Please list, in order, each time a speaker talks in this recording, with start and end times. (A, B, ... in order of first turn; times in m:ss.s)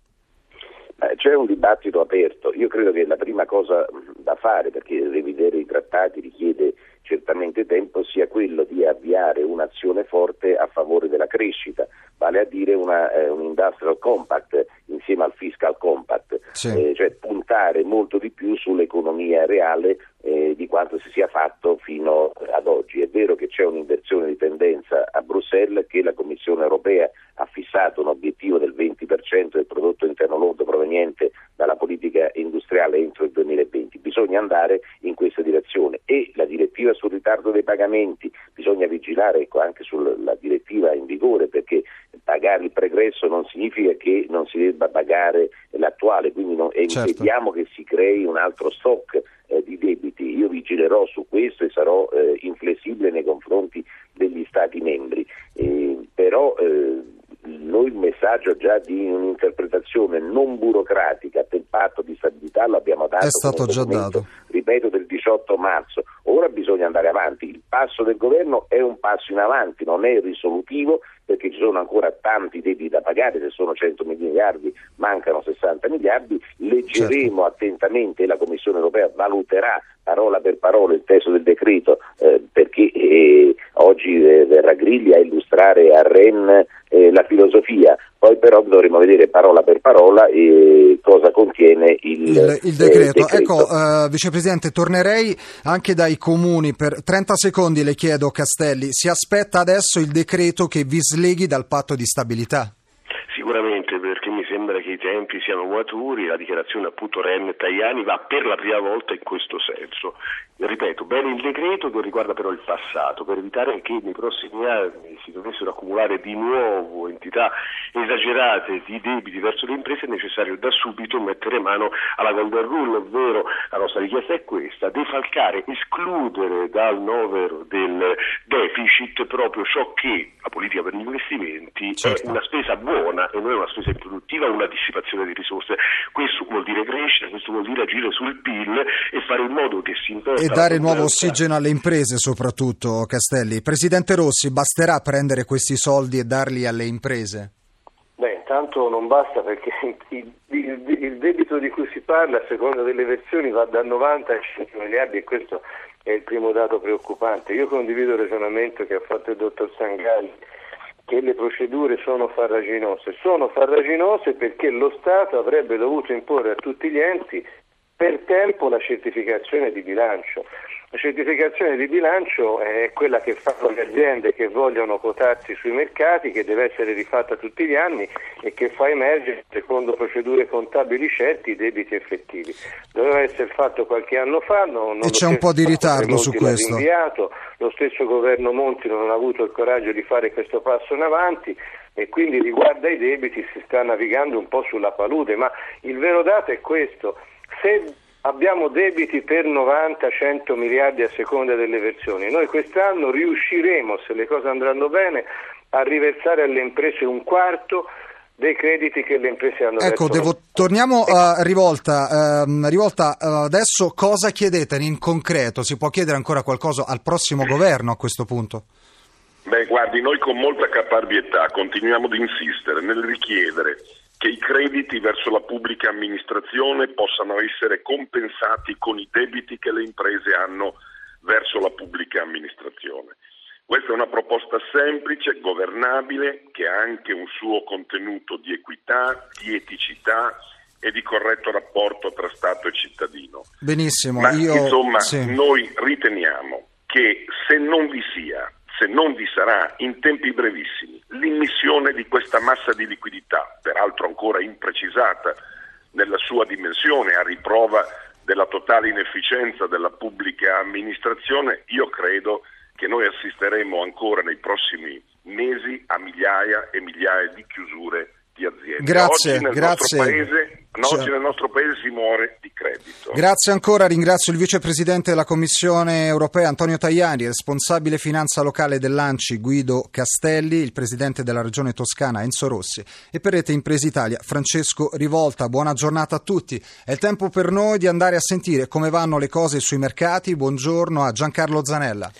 0:01.0-1:33.7 A
0:46.9-0:47.3 B
1:03.2-1:04.3 B
1:32.2-1:42.7 B
1:43.3-2:21.4 C
2:12.0-2:12.4 B
2:20.4-2:27.5 B
2:28.2-2:40.3 D
2:41.1-2:47.4 D
2:48.0-3:27.9 D
3:05.0-3:06.8 B
3:28.4-3:30.3 D
3:29.8-3:38.6 B
3:39.4-3:53.1 E
3:53.7-4:03.4 E
4:03.6-4:05.3 B
4:04.2-4:15.4 E
4:15.9-4:33.2 E
4:28.8-4:30.2 B
4:30.8-4:31.1 B
4:33.1-4:52.1 B